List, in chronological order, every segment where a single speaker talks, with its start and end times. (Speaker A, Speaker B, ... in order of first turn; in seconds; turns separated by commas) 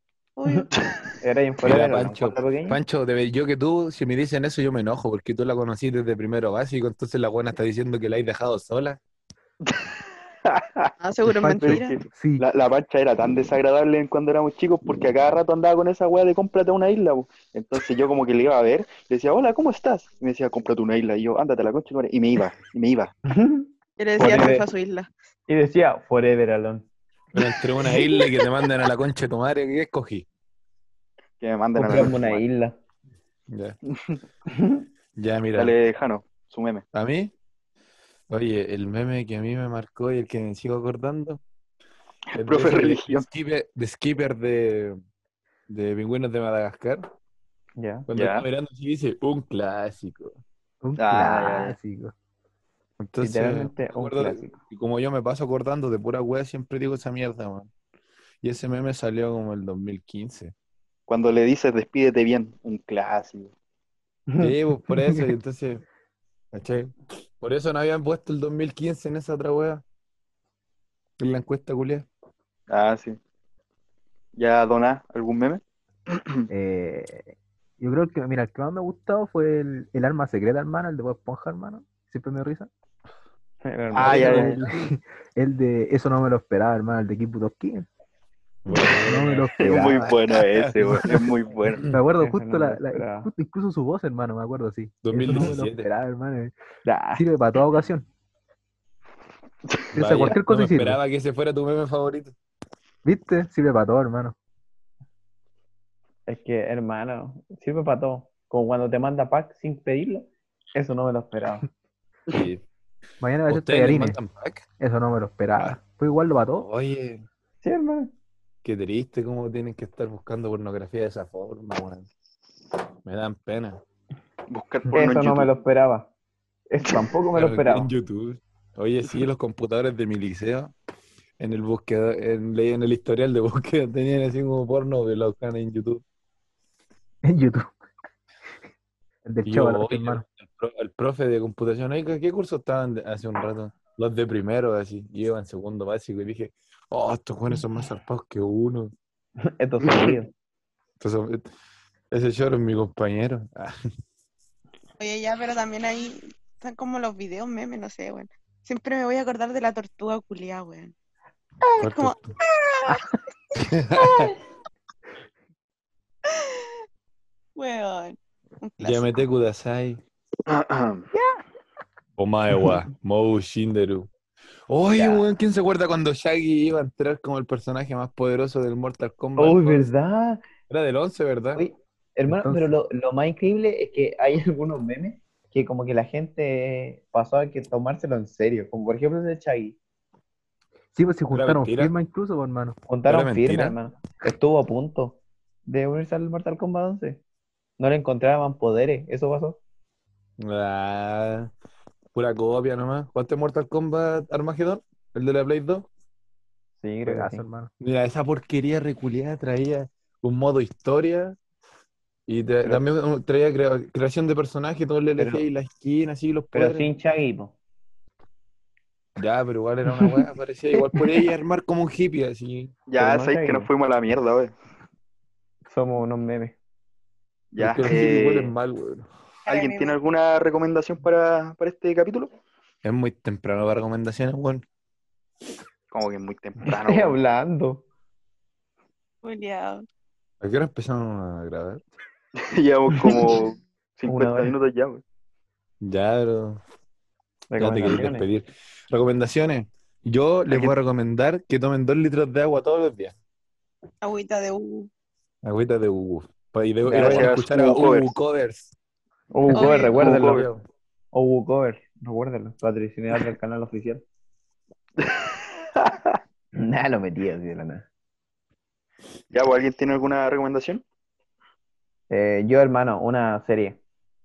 Speaker A: 0.4-1.1, Speaker B: 1.2-2.8, Speaker C: 1.6-9.0, Speaker D: 10.5-10.9, Speaker A: 11.0-11.9, Speaker E: 11.3-12.4, Speaker D: 11.6-23.1, Speaker B: 23.3-24.7, Speaker A: 24.0-25.1, Speaker B: 25.5-26.9, Speaker C: 27.3-30.3, Speaker D: 31.4-32.4, Speaker B: 31.8-32.8, Speaker C: 33.5-33.8, Speaker B: 34.5-34.9, Speaker C: 35.2-35.8, Speaker D: 35.5-36.9, Speaker C: 36.9-37.3, Speaker C: 38.3-41.4, Speaker C: 42.3-45.0, Speaker D: 42.4-43.3, Speaker C: 45.7-47.1, Speaker B: 47.8-48.1, Speaker C: 48.1-50.4, Speaker D: 48.1-48.4, Speaker E: 50.8-52.1, Speaker D: 51.0-51.8, Speaker C: 53.0-57.7, Speaker B: 53.2-54.6, Speaker C: 58.4-60.5, Speaker D: 61.1-63.5, Speaker C: 64.4-65.8, Speaker C: 66.5-69.8, Speaker C: 71.2-72.1, Speaker D: 72.7-73.2, Speaker D: 74.4-76.5, Speaker E: 76.5-82.7, Speaker B: 83.6-84.6, Speaker D: 83.9-84.6, Speaker E: 84.1-87.9, Speaker C: 88.7-91.2, Speaker E: 89.0-90.2, Speaker D: 89.6-91.8, Speaker B: 89.7-90.0, Speaker E: 91.9-96.5, Speaker B: 92.2-93.3, Speaker C: 95.0-95.9, Speaker B: 96.8-97.3, Speaker E: 97.1-98.1, Speaker D: 99.7-100.3, Speaker E: 100.0-101.0, Speaker C: 100.0-102.3, Speaker E: 103.0-104.3, Speaker B: 106.3-111.7, Speaker C: 112.3-112.6, Speaker E: 113.2-114.2, Speaker C: 113.5-114.7, Speaker E: 114.8-116.7, Speaker C: 116.6-117.3, Speaker B: 117.6-118.1, Speaker C: 118.6-122.1, Speaker C: 123.0-123.8, Speaker D: 124.5-125.5, Speaker B: 124.9-126.1, Speaker B: 126.7-127.9, Speaker C: 127.3-130.7, Speaker C: 131.4-136.0, Speaker E: 137.2-137.8, Speaker E: 139.2-140.2, Speaker C: 139.5-148.9, Speaker B: 149.4-150.3, Speaker C: 151.0-151.4, Speaker C: 152.1-153.8, Speaker A: 155.0-160.9, Speaker A: 161.6-163.1, Speaker C: 161.8-162.3, Speaker C: 163.6-164.3, Speaker A: 164.0-164.3, Speaker A: 166.3-166.7, Speaker A: 167.6-169.2, Speaker C: 168.8-170.0, Speaker D: 170.5-171.1, Speaker B: 171.1-171.4, Speaker C: 172.2-174.1, Speaker C: 174.7-179.9, Speaker D: 174.9-175.2, Speaker B: 179.4-180.4, Speaker C: 180.7-181.6, Speaker B: 181.6-189.8, Speaker E: 182.3-182.7, Speaker E: 190.9-192.8, Speaker C: 191.3-191.9, Speaker B: 192.9-197.2, Speaker C: 193.1-193.8, Speaker B: 197.8-199.6, Speaker C: 200.4-201.5, Speaker C: 202.1-205.9, Speaker B: 206.8-207.5, Speaker E: 207.1-207.7, Speaker C: 207.8-211.4, Speaker C: 212.3-216.9, Speaker B: 215.2-215.5, Speaker B: 216.5-217.6, Speaker C: 219.2-222.8, Speaker B: 219.9-220.2, Speaker D: 222.9-224.5, Speaker B: 223.0-223.7, Speaker B: 225.7-226.6, Speaker D: 227.5-228.5, Speaker C: 227.6-229.1, Speaker A: 229.5-229.9, Speaker D: 229.5-232.3, Speaker C: 232.8-234.7, Speaker D: 235.9-237.2, Speaker B: 236.7-237.8, Speaker A: 239.2-239.8, Speaker C: 240.4-241.8, Speaker D: 242.4-245.0, Speaker B: 244.1-244.5, Speaker C: 245.8-246.6, Speaker B: 247.5-248.3, Speaker C: 247.6-253.1, Speaker D: 250.5-250.8, Speaker A: 254.0-254.9, Speaker C: 255.4-258.7, Speaker B: 256.8-257.3, Speaker D: 256.9-258.1, Speaker B: 259.3-260.4, Speaker C: 259.5-260.6, Speaker A: 259.6-260.0, Speaker D: 259.9-260.5, Speaker B: 261.1-264.0, Speaker D: 265.0-266.0, Speaker B: 266.6-267.9, Speaker D: 269.3-270.8, Speaker B: 272.1-273.8